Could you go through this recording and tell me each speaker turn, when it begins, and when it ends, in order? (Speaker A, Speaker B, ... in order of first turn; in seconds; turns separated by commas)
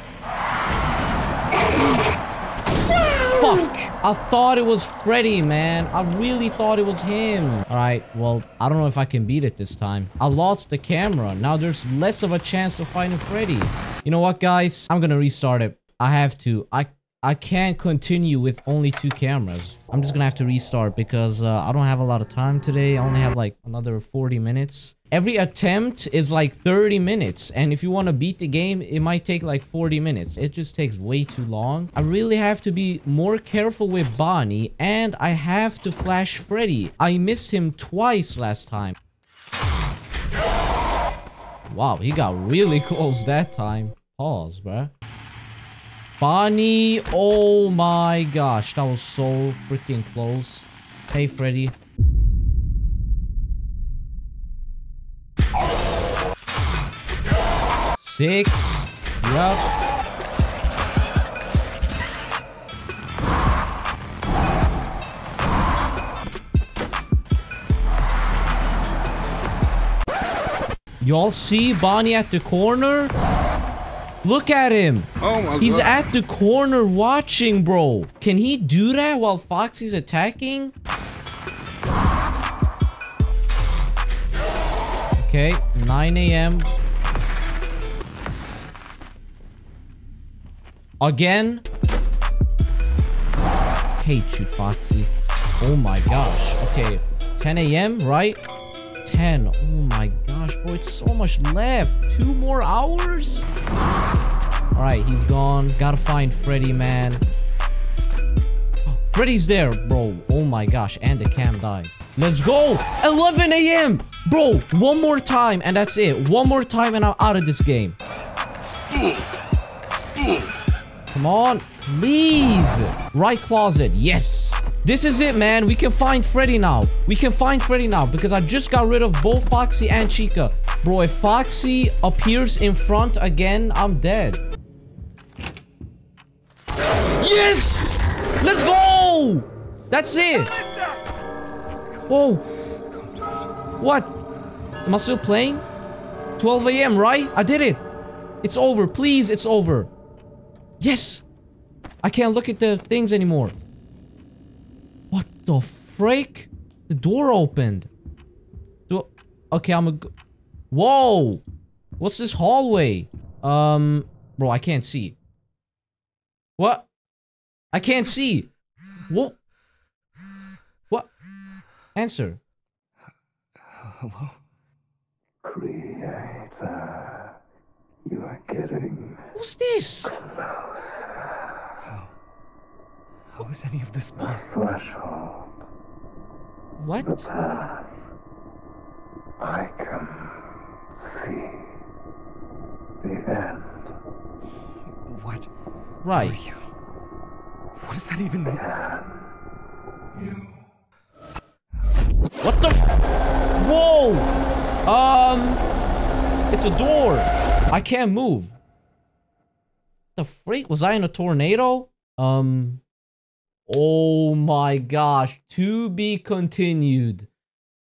Speaker A: 3.3-39.0, Speaker A: 41.7-44.9, Speaker A: 46.2-51.7, Speaker A: 58.0-59.6, Speaker A: 71.0-73.1, Speaker A: 74.2-80.7, Speaker B: 75.2-75.8, Speaker A: 85.2-86.7, Speaker A: 91.0-91.6, Speaker A: 94.0-98.4, Speaker A: 99.0-103.4, Speaker A: 104.7-107.2, Speaker A: 108.9-118.0, Speaker A: 121.1-134.4, Speaker A: 137.2-140.5, Speaker A: 142.1-142.4, Speaker A: 143.8-144.1, Speaker A: 144.8-145.6, Speaker A: 146.4-147.8, Speaker A: 148.4-149.9, Speaker A: 150.8-151.2, Speaker A: 152.0-153.5, Speaker A: 155.1-157.9, Speaker A: 158.9-160.1, Speaker A: 160.7-161.4, Speaker A: 162.0-165.2, Speaker A: 166.6-166.9, Speaker A: 167.7-168.5, Speaker A: 169.1-169.4, Speaker A: 171.9-172.4, Speaker C: 173.8-174.4, Speaker B: 175.4-177.3, Speaker B: 178.1-179.2, Speaker A: 179.3-180.2, Speaker C: 181.8-182.1, Speaker C: 183.3-184.7, Speaker B: 184.6-185.4, Speaker A: 186.8-187.4, Speaker B: 187.4-187.8, Speaker B: 189.4-190.4, Speaker B: 191.0-191.7, Speaker B: 193.0-193.8, Speaker C: 195.1-195.5, Speaker A: 196.0-196.4, Speaker C: 196.1-196.6, Speaker C: 197.8-198.9, Speaker A: 202.4-202.9, Speaker A: 203.6-204.3, Speaker A: 204.8-205.6, Speaker A: 206.5-208.6, Speaker A: 210.2-212.8, Speaker A: 213.7-217.3